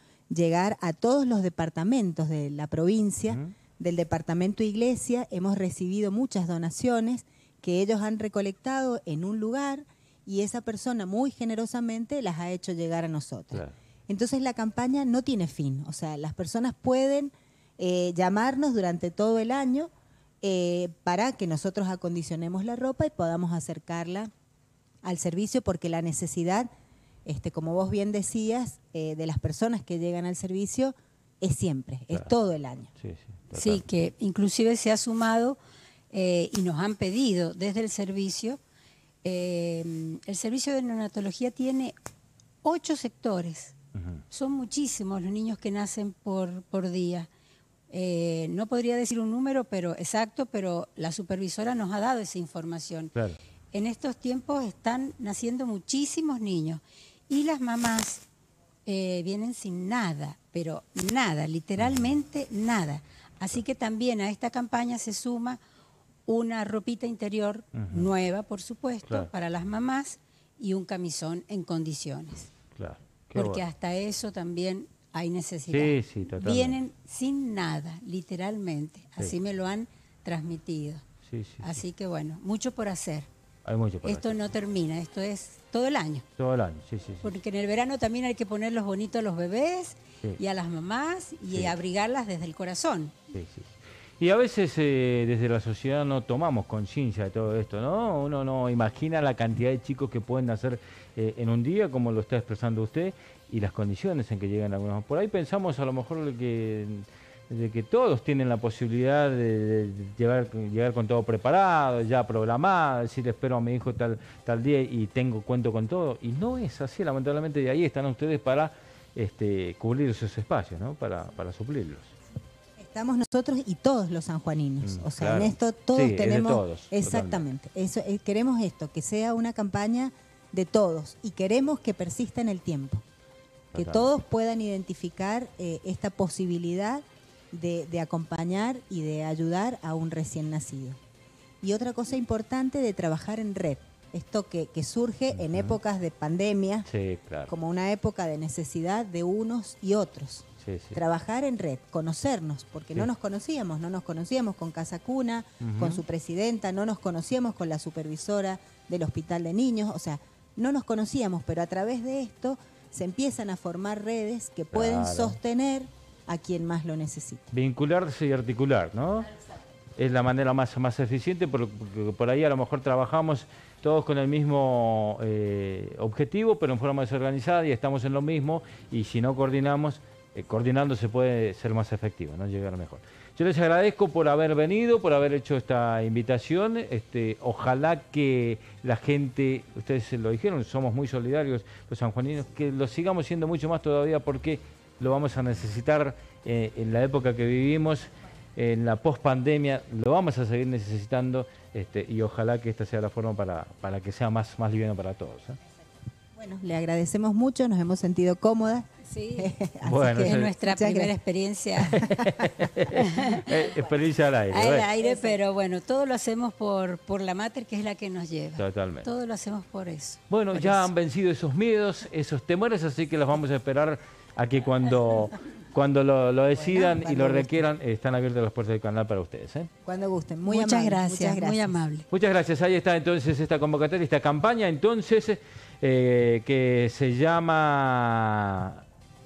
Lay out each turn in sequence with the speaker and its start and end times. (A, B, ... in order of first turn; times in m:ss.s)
0:00.3-0:19.9 A
0:20.4-0:24.3 A
0:25.0-0:26.7 A
0:27.3-0:32.9 A
0:33.0-0:33.8 B
0:33.5-0:35.6 C
0:36.1-0:38.6 C
0:39.2-0:42.0 C
0:42.6-0:43.8 C
0:44.0-0:44.2 B
0:44.3-0:47.3 C
0:47.9-0:53.1 C
0:53.7-0:58.2 C
0:58.9-1:05.6 C
1:01.8-1:02.2 B
1:06.3-1:12.5 C
1:07.8-1:08.1 B
1:12.7-1:13.6 B
1:13.3-1:21.0 C
1:15.7-1:16.8 B
1:21.2-1:21.8 B
1:21.6-1:23.3 C
1:23.6-1:24.4 B
1:24.0-1:26.2 C
1:26.4-1:27.3 B
1:27.2-1:33.2 C
1:33.3-2:02.1 B
2:02.8-2:13.0 A
2:04.8-2:07.4 B
2:13.7-2:21.0 A
2:13.7-2:14.1 B
2:21.6-2:26.9 A
2:25.3-2:25.8 B
2:26.9-2:27.5 B
2:27.5-2:47.5 A
2:30.6-2:31.0 B
2:35.6-2:36.0 B
2:44.7-2:45.4 B
2:47.5-2:49.3 B
2:50.0-3:25.6 B
3:26.4-3:31.1 A
3:29.1-3:32.1 C
3:29.8-3:30.5 B
3:31.8-3:34.9 B
3:32.1-3:32.7 A
3:32.9-3:33.8 C
3:34.5-3:40.9 C
3:35.0-3:35.4 A
3:38.6-3:39.1 B
3:40.3-3:49.7 B
3:46.5-3:47.6 A
3:49.8-3:51.7 A
3:50.5-3:52.1 C
3:52.1-3:58.8 B